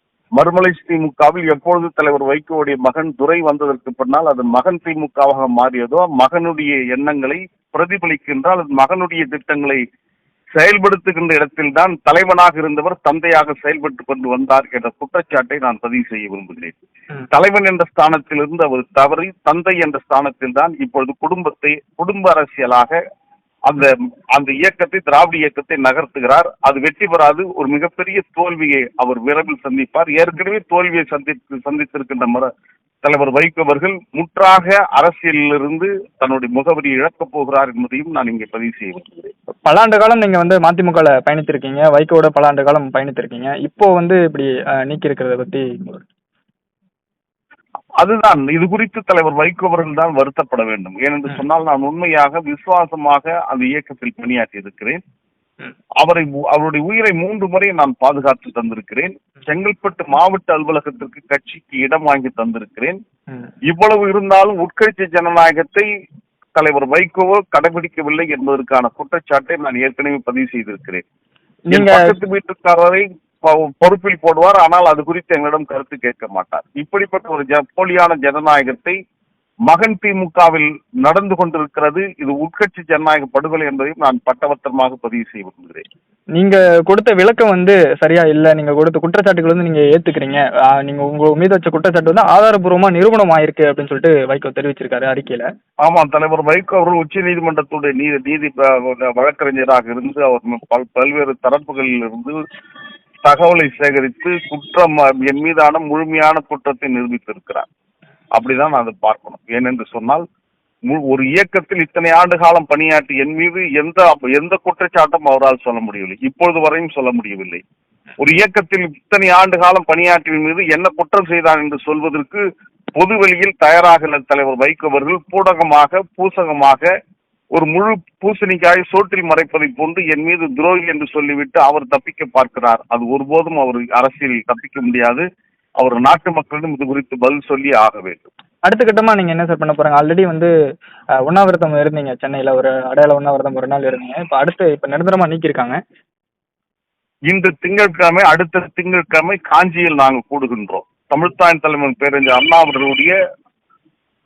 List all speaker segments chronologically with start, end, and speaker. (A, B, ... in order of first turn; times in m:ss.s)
0:00.4-0:09.8 A
0:10.6-0:16.8 A
0:17.3-0:23.0 A
0:23.6-0:32.5 A
0:33.0-0:39.3 A
0:39.6-0:46.0 B
0:48.0-0:55.0 A
0:56.0-1:03.0 A
1:03.7-1:05.9 A
1:06.6-1:11.0 A
1:11.7-1:12.1 B
1:11.7-1:19.0 A
1:19.7-1:25.8 A
1:26.4-1:35.4 B
1:35.8-1:42.4 A
1:43.2-1:47.7 A
1:48.3-1:50.2 A
1:50.9-1:57.6 A
1:58.2-2:02.4 A
2:03.0-2:06.9 A
2:07.5-2:15.2 A
2:15.8-2:18.3 A
2:18.7-2:20.5 B
2:21.2-2:25.8 B
2:27.3-2:33.1 A